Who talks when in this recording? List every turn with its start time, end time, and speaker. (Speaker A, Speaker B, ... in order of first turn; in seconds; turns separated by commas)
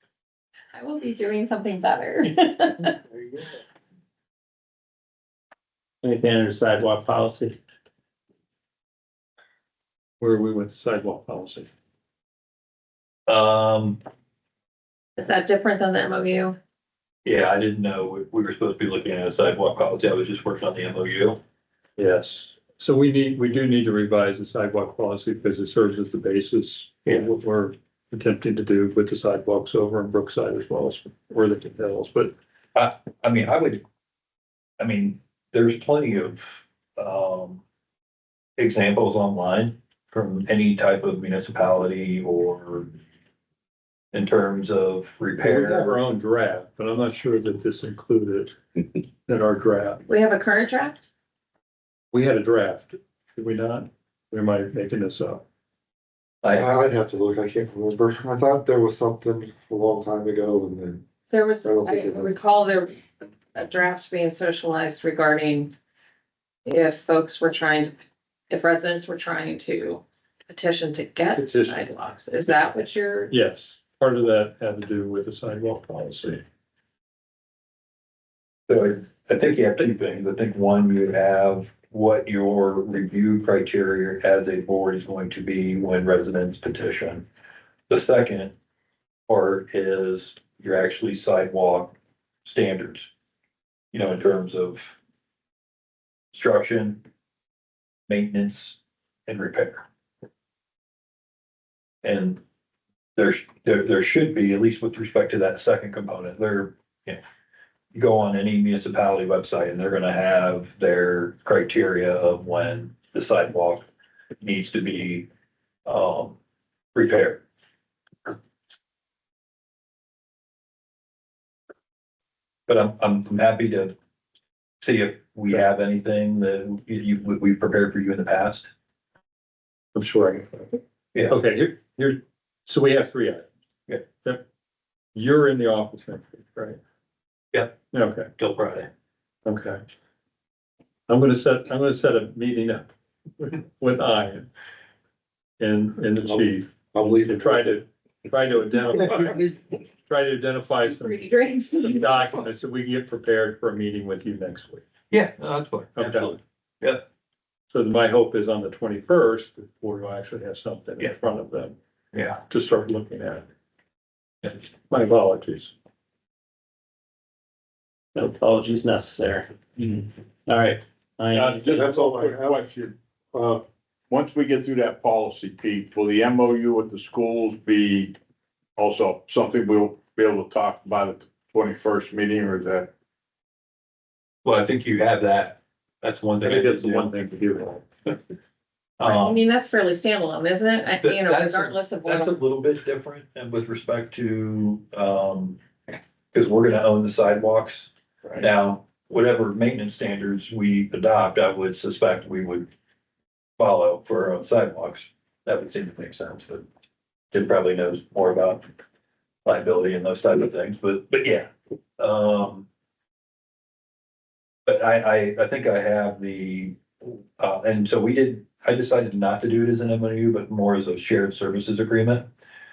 Speaker A: 0.7-3.0, Speaker B: 6.0-7.6, Speaker C: 10.2-11.7, Speaker D: 13.3-14.0, Speaker A: 15.2-16.6, Speaker D: 17.2-21.4, Speaker C: 22.0-32.3, Speaker D: 32.8-33.8, Speaker D: 34.8-37.6, Speaker D: 38.6-42.9, Speaker D: 44.1-46.0, Speaker C: 45.4-50.0, Speaker A: 50.1-51.1, Speaker C: 52.1-55.4, Speaker D: 56.4-56.7, Speaker E: 56.5-61.0, Speaker A: 61.3-63.0, Speaker E: 61.6-62.4, Speaker A: 63.5-65.7, Speaker A: 66.7-68.0, Speaker A: 68.5-73.3, Speaker C: 71.4-71.8, Speaker C: 73.3-76.4, Speaker D: 78.7-87.3, Speaker D: 87.9-88.5, Speaker D: 89.3-91.9, Speaker D: 92.5-93.1, Speaker D: 93.9-95.0, Speaker D: 96.3-97.0, Speaker D: 98.1-99.8, Speaker D: 102.0-102.4, Speaker D: 103.2-107.2, Speaker D: 107.9-113.9, Speaker D: 114.4-115.3, Speaker D: 115.9-116.4, Speaker D: 117.0-117.4, Speaker D: 122.7-123.9, Speaker D: 124.8-128.7, Speaker C: 129.9-133.5, Speaker C: 135.2-136.8, Speaker D: 137.5-137.8, Speaker C: 137.9-138.3, Speaker D: 138.4-138.9, Speaker C: 139.5-139.8, Speaker C: 141.1-144.5, Speaker C: 145.6-149.5, Speaker E: 146.2-147.8, Speaker E: 148.9-149.5, Speaker C: 150.1-151.2, Speaker A: 150.8-152.1, Speaker C: 151.9-154.8, Speaker D: 155.1-157.0, Speaker C: 156.0-156.4, Speaker C: 157.7-161.8, Speaker D: 162.1-162.4, Speaker C: 162.5-163.5, Speaker C: 164.9-165.7, Speaker B: 168.2-171.8, Speaker F: 171.3-178.2, Speaker E: 171.7-172.5, Speaker F: 178.8-182.9, Speaker D: 184.4-187.1, Speaker C: 186.4-187.8, Speaker D: 189.0-189.4, Speaker A: 189.0-192.4, Speaker D: 191.0-195.6, Speaker D: 196.3-202.7, Speaker D: 203.6-206.7, Speaker D: 207.3-208.7, Speaker D: 209.4-212.7, Speaker D: 214.7-222.3